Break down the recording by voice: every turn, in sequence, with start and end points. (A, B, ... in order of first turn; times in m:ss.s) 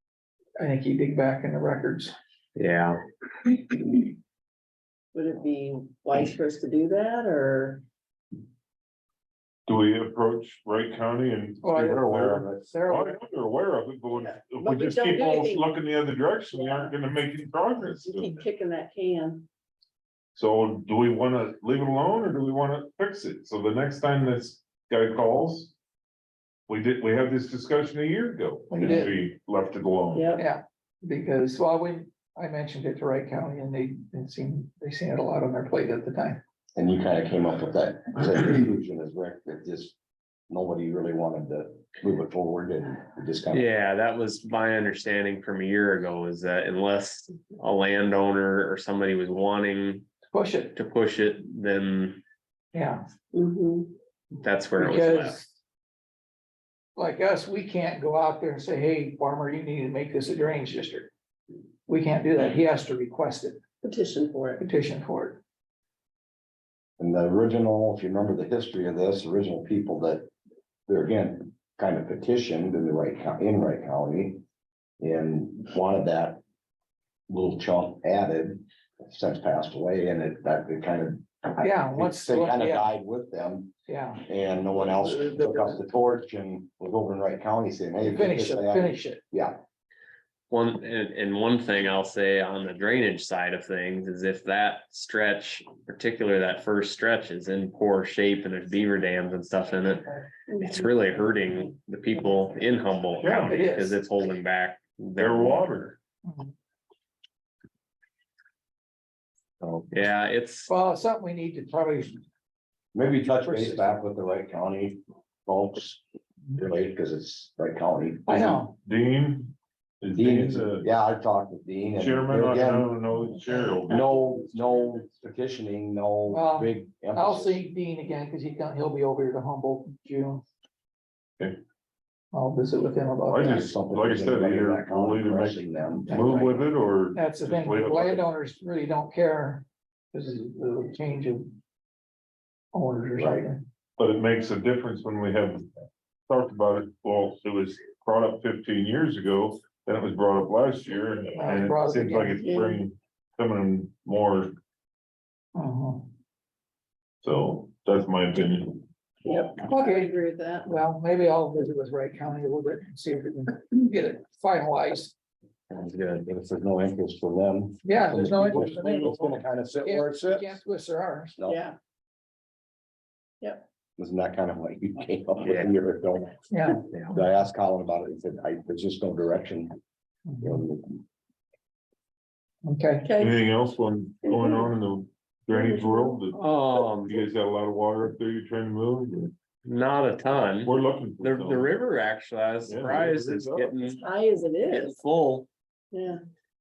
0:00.6-0:02.1 A
0:02.6-0:03.0 B
0:05.1-0:07.8 C
0:09.7-0:18.4 D
0:11.6-0:12.0 A
0:12.0-0:12.7 E
0:12.7-0:13.2 A
0:14.1-0:15.7 C
0:16.5-0:17.0 C
0:17.8-0:19.5 C
0:20.3-0:25.7 D
0:26.7-0:30.3 D
0:28.7-0:29.1 A
0:30.1-0:30.4 C
0:30.4-0:36.4 A
0:36.8-0:40.0 E
0:40.5-0:43.7 E
0:43.5-0:50.1 B
0:50.3-0:50.7 A
0:50.7-0:52.2 B
0:52.7-0:53.0 A
0:53.3-0:54.0 C
0:54.4-0:55.4 B
0:54.8-0:55.6 A
0:57.0-1:01.1 A
1:01.9-1:03.6 A
1:03.8-1:04.6 C
1:04.6-1:05.4 A
1:07.0-1:10.3 E
1:10.9-1:14.4 E
1:15.0-1:16.4 E
1:17.3-1:23.7 E
1:21.6-1:22.9 A
1:23.9-1:25.8 A
1:24.2-1:29.6 E
1:28.0-1:29.2 A
1:30.5-1:45.7 B
1:40.5-1:41.7 C
1:43.2-1:43.6 D
1:43.4-1:44.0 A
1:45.2-1:46.0 D
1:46.2-1:46.5 A
1:49.6-1:50.7 B
1:50.7-1:52.2 A
1:52.9-1:56.0 E
1:53.4-1:53.9 A
1:56.5-1:58.6 E
1:58.3-1:58.7 A
1:58.8-2:00.8 D
2:00.1-2:02.9 E
2:02.0-2:04.1 D
2:03.9-2:07.6 E
2:06.3-2:10.4 A
2:12.3-2:13.6 A
2:13.3-2:18.2 D
2:13.4-2:16.6 E
2:16.1-2:16.5 A
2:17.1-2:21.6 A
2:22.7-2:23.6 A
2:23.2-2:23.5 E
2:24.0-2:25.7 D
2:26.3-2:34.5 D
2:31.4-2:32.4 A
2:32.4-2:32.8 C
2:35.5-2:36.1 A
2:37.2-2:38.8 D
2:39.2-2:40.7 C
2:39.6-2:40.1 A
2:40.6-2:45.1 A
2:45.7-2:50.6 E
2:45.8-2:46.2 B
2:47.8-2:51.4 A
2:51.4-2:51.6 E
2:51.5-2:51.8 C
2:53.4-2:53.6 C
2:54.0-2:56.4 E
2:55.4-2:55.7 B
2:56.5-2:56.8 A
2:56.9-2:57.2 B
2:57.1-2:59.8 E
3:00.3-3:00.6 A
3:00.4-3:01.0 E
3:02.6-3:03.1 A
3:03.0-3:03.4 C
3:03.2-3:06.4 D
3:04.2-3:04.7 C
3:05.5-3:06.3 C
3:06.4-3:07.2 B
3:07.0-3:09.4 D
3:09.6-3:14.0 B
3:10.6-3:11.7 D
3:12.7-3:13.7 D
3:13.8-3:15.0 C
3:14.7-3:15.5 B
3:15.9-3:16.2 C